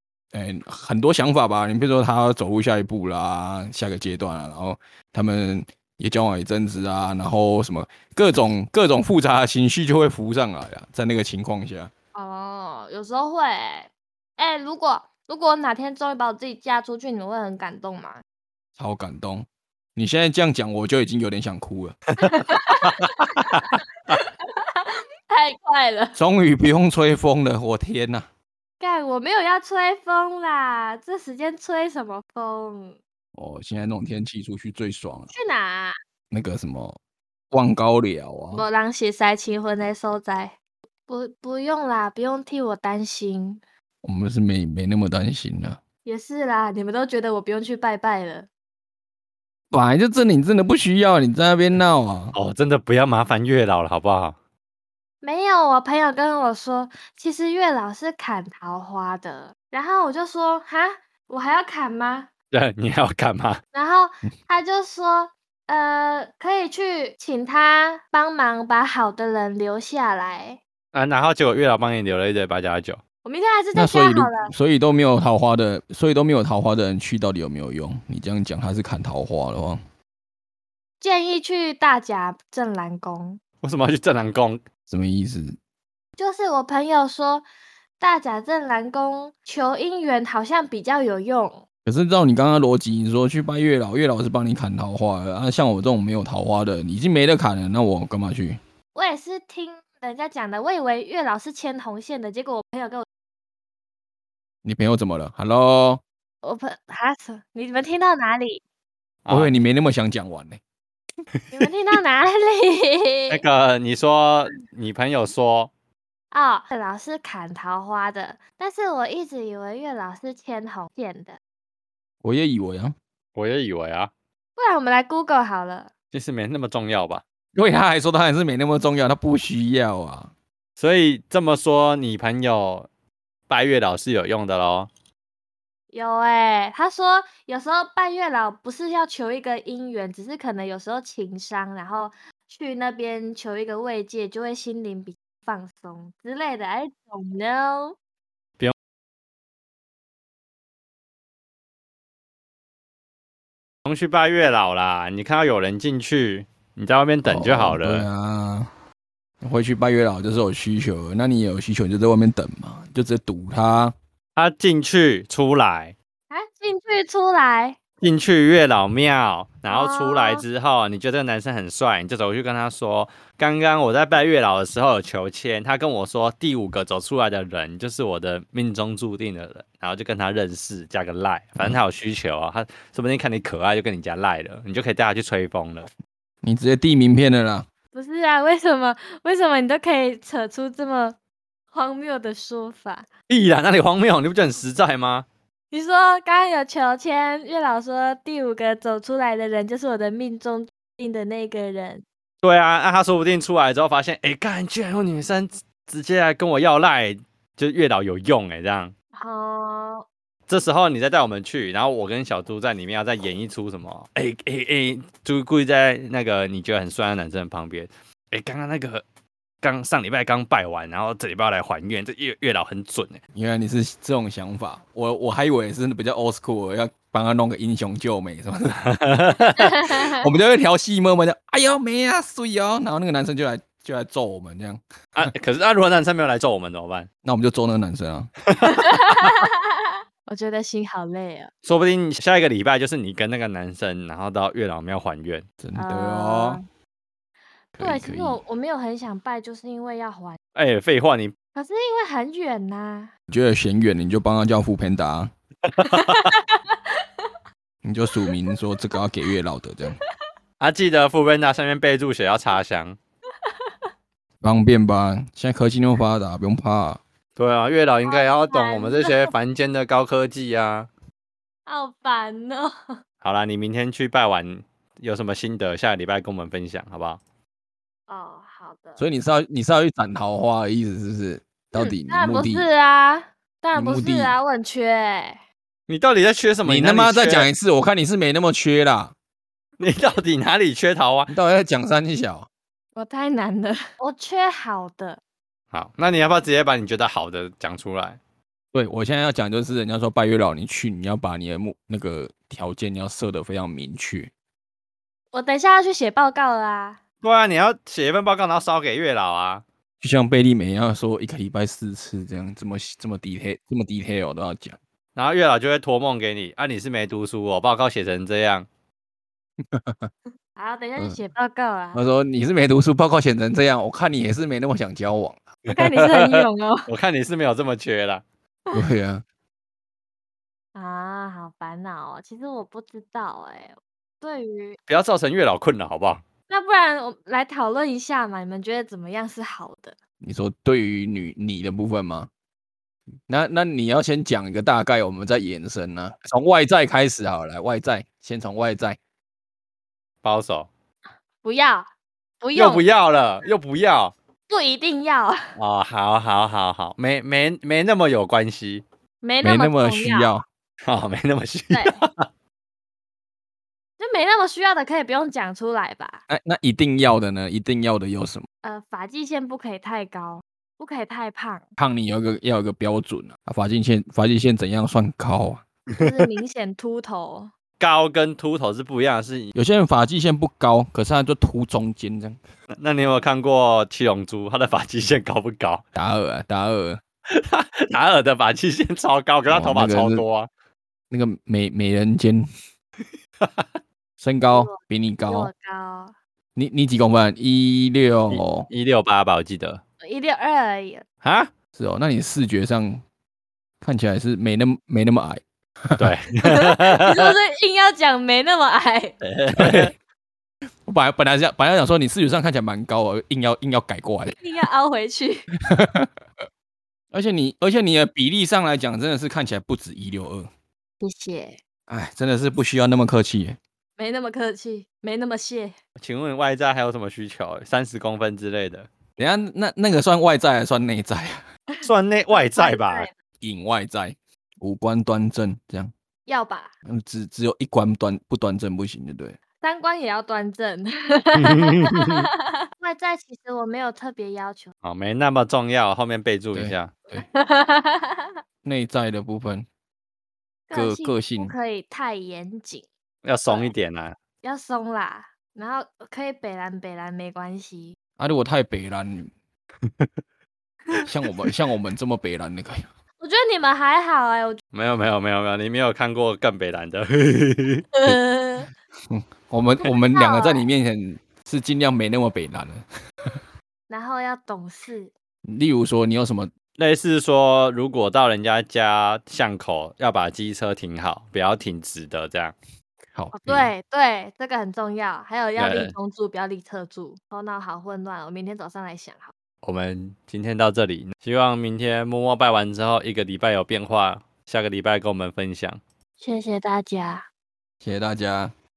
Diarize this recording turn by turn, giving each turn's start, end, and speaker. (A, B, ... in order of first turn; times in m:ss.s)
0:00.3-0:11.9 A
0:12.2-0:18.2 B
0:18.8-0:22.0 A
0:22.2-0:26.2 B
0:22.8-0:24.2 C
0:26.2-0:28.3 A
0:28.8-0:33.0 B
0:33.4-0:35.3 A
0:35.3-0:36.0 B
0:36.3-0:37.0 A
0:37.5-0:38.6 A
0:38.5-0:40.6 B
0:41.1-0:43.6 B
0:44.0-0:45.8 A
0:46.0-0:48.5 B
0:49.7-0:52.3 A
0:52.3-0:54.4 C
0:55.2-1:02.3 B
1:02.5-1:03.6 C
1:03.7-1:10.6 B
1:10.9-1:13.0 C
1:13.2-1:14.5 B
1:13.7-1:19.8 A
1:21.0-1:23.4 B
1:23.6-1:24.6 C
1:24.9-1:25.6 A
1:26.2-1:27.5 B
1:28.0-1:31.6 B
1:31.9-1:38.6 A
1:39.0-1:43.0 B
1:44.6-1:46.0 A
1:46.4-1:48.6 B
1:49.2-1:49.6 C
1:49.3-1:50.6 A
1:51.5-1:53.4 B
1:53.3-1:55.7 C
1:56.3-2:01.4 B
2:02.2-2:03.0 A
2:03.4-2:04.1 C
2:04.6-2:05.9 B
2:06.1-2:07.2 C
2:07.6-2:10.3 A
2:10.8-2:12.9 C
2:13.5-2:14.9 C
2:15.9-2:28.0 B
2:33.8-2:38.1 C
2:37.2-2:38.7 A
2:39.4-2:43.9 A
2:44.4-2:46.0 C
2:46.3-2:47.8 B
2:48.0-3:05.9 C
2:49.7-2:50.4 B
3:06.4-3:07.7 A
3:07.9-3:11.2 B
3:11.7-3:13.1 B
3:13.3-3:15.2 C
3:15.7-3:22.0 B
3:22.4-3:28.9 C
3:29.2-3:30.0 B
3:30.5-3:39.0 C
3:39.6-3:43.2 C
3:43.4-3:48.8 A
3:48.8-3:49.7 C
3:49.4-3:54.8 A
3:49.6-3:50.2 B
3:55.2-3:57.1 C
3:57.2-3:58.3 A
3:58.5-3:59.3 C
3:58.6-4:01.5 B
4:01.6-4:05.5 C
4:05.6-4:06.6 A
4:05.8-4:06.6 B
4:07.8-4:08.4 A
4:07.8-4:10.4 B
4:10.6-4:11.3 C
4:11.6-4:13.1 B
4:13.3-4:15.3 A
4:15.7-4:16.3 C
4:15.8-4:17.3 B
4:17.8-4:20.0 A
4:20.6-4:23.0 C
4:23.4-4:23.7 B
4:24.4-4:27.0 A
4:27.4-4:30.9 C
4:28.1-4:29.3 B
4:31.7-4:32.9 B
4:33.2-4:37.2 C
4:38.1-4:39.0 B
4:39.0-4:42.7 A
4:41.8-4:45.4 B
4:43.7-4:44.3 A
4:45.9-4:47.5 C
4:46.7-4:49.1 A
4:49.8-4:51.3 C
4:51.3-4:52.5 A
4:53.0-4:55.2 B
4:55.7-4:58.2 C
4:58.7-5:04.3 A
5:05.3-5:07.0 B
5:07.2-5:09.6 C
5:10.0-5:14.8 A
5:15.2-5:18.7 C
5:19.6-5:20.1 A
5:20.6-5:22.0 B
5:21.9-5:25.4 A
5:25.7-5:28.2 C
5:25.7-5:26.9 B
5:28.7-5:29.2 A
5:30.8-5:34.8 B
5:34.9-5:36.2 C
5:36.5-5:40.0 B
5:40.2-5:42.3 A
5:43.3-5:49.0 A
5:50.2-5:50.7 C
5:51.4-5:51.9 B
5:52.4-5:52.8 B
5:52.6-5:54.1 C
5:54.5-5:55.5 B
5:55.6-5:58.8 C
5:59.2-6:00.3 B
5:59.4-6:00.5 A
6:00.8-6:02.3 C
6:01.7-6:02.0 B
6:04.0-6:06.2 B
6:06.3-6:08.5 A
6:08.6-6:11.7 B
6:11.8-6:15.7 A
6:16.0-6:17.5 B
6:17.8-6:19.5 C
6:19.6-6:22.4 A
6:22.8-6:25.8 C
6:26.0-6:27.0 A
6:27.3-6:30.5 C
6:29.5-6:30.2 A
6:31.1-6:32.5 A
6:33.4-6:33.7 C
6:34.2-6:35.5 A
6:34.5-6:36.1 B
6:36.6-6:38.7 A
6:38.3-6:39.8 C
6:40.0-6:41.0 B
6:41.2-6:41.5 C
6:41.8-6:43.0 A
6:43.8-6:46.1 A
6:46.0-6:47.3 C
6:46.4-6:49.2 B
6:49.2-6:49.9 C
6:49.6-6:49.9 A
6:50.8-6:54.4 A
6:54.4-6:55.5 B
6:55.6-6:56.1 A
6:57.1-7:00.5 A
7:01.0-7:01.6 B
7:01.9-7:03.6 A
7:04.0-7:05.8 B
7:06.0-7:08.9 C
7:09.2-7:11.4 A
7:11.7-7:13.1 B
7:11.8-7:13.1 C
7:13.4-7:15.9 A
7:16.3-7:16.7 B
7:16.9-7:19.4 A
7:19.6-7:24.7 B
7:21.4-7:22.3 C
7:24.8-7:26.9 C
7:26.5-7:27.3 A
7:27.2-7:28.3 B
7:28.6-7:29.7 A
7:30.7-7:32.9 B
7:30.7-7:31.6 A
7:33.2-7:34.2 C
7:34.4-7:38.0 B
7:38.2-7:39.3 A
7:41.0-7:42.9 A
7:43.2-7:44.6 B
7:44.7-7:47.9 C
7:48.0-7:48.7 B
7:49.1-7:53.4 A
7:50.1-7:50.6 B
7:53.9-7:55.1 B
7:55.4-7:56.5 A
7:56.8-8:02.6 C
8:03.1-8:03.7 A
8:03.3-8:09.3 B
8:05.6-8:06.0 C
8:09.6-8:15.8 C
8:16.2-8:17.3 B
8:17.8-8:18.5 A